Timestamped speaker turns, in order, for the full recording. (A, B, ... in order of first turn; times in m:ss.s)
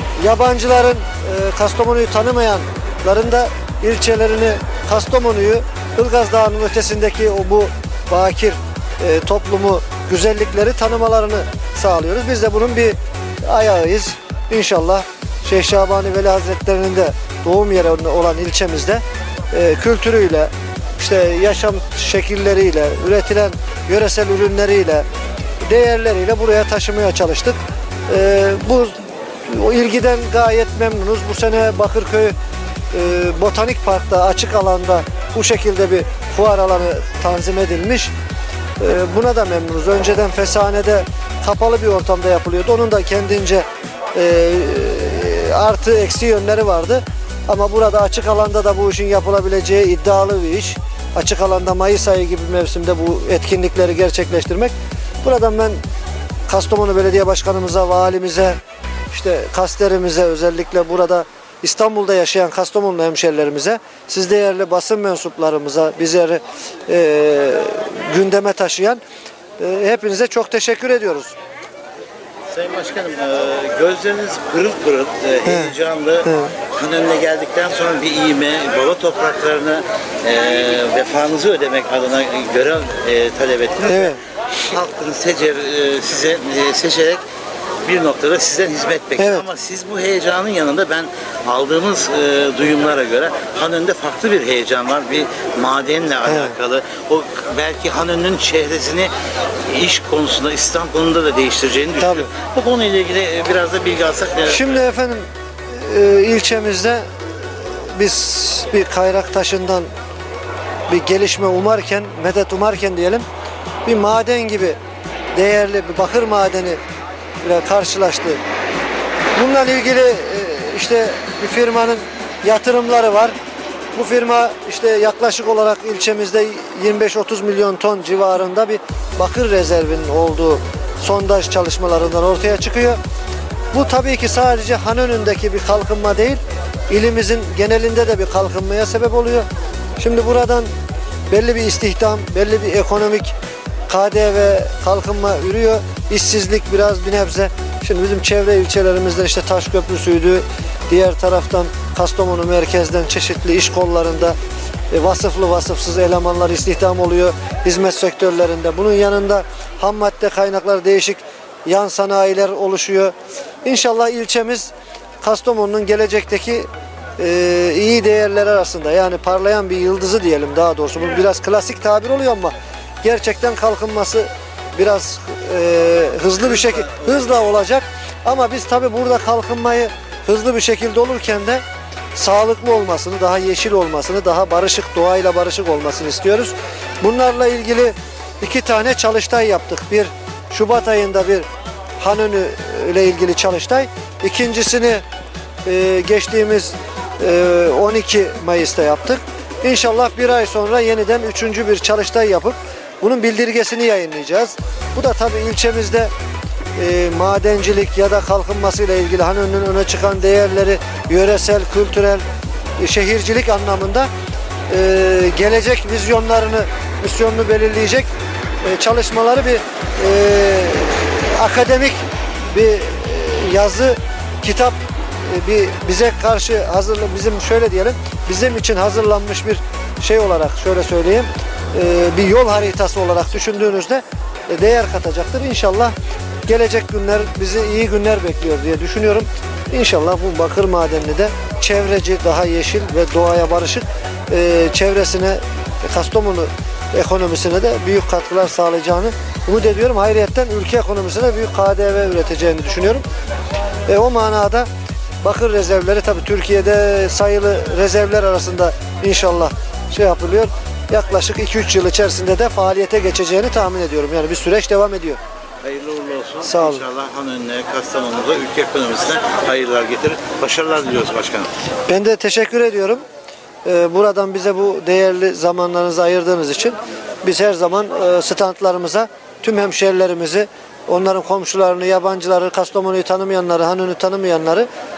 0:00.2-0:25.0 A
0:25.6-0:32.4 A
0:32.9-0:38.1 A
0:38.8-0:54.7 A
0:55.2-0:55.8 A
0:56.5-0:58.6 A
0:59.1-1:09.0 A
1:09.6-1:11.3 A
1:12.5-1:27.2 B
1:15.4-1:15.7 A
1:16.2-1:16.5 A
1:23.8-1:24.2 A
1:27.8-1:39.1 B
1:29.2-1:29.4 A
1:36.2-1:36.6 A
1:39.7-1:44.8 B
1:42.0-1:42.3 A
1:44.5-1:49.9 A
1:50.9-1:53.2 A
1:53.8-1:54.8 A
1:55.3-1:56.8 A
1:57.4-1:58.4 A
1:59.4-2:03.3 A
2:03.9-2:13.0 A
2:13.7-2:19.4 A
2:20.0-2:20.7 A
2:21.3-2:23.3 A
2:23.9-2:34.4 A
2:34.9-2:43.1 A
2:43.6-3:01.6 A
2:56.5-2:57.4 B
3:02.1-3:11.4 A
3:12.0-3:15.0 A
3:15.6-3:26.1 A
3:26.8-3:32.2 A
3:32.8-3:34.1 A
3:34.7-3:38.1 A
3:38.6-3:55.9 A
3:56.5-4:13.0 A
4:13.9-4:14.7 A
4:15.2-4:25.2 A
4:25.6-4:31.5 B
4:26.4-4:26.8 A
4:31.9-4:33.0 A
4:33.6-4:44.7 A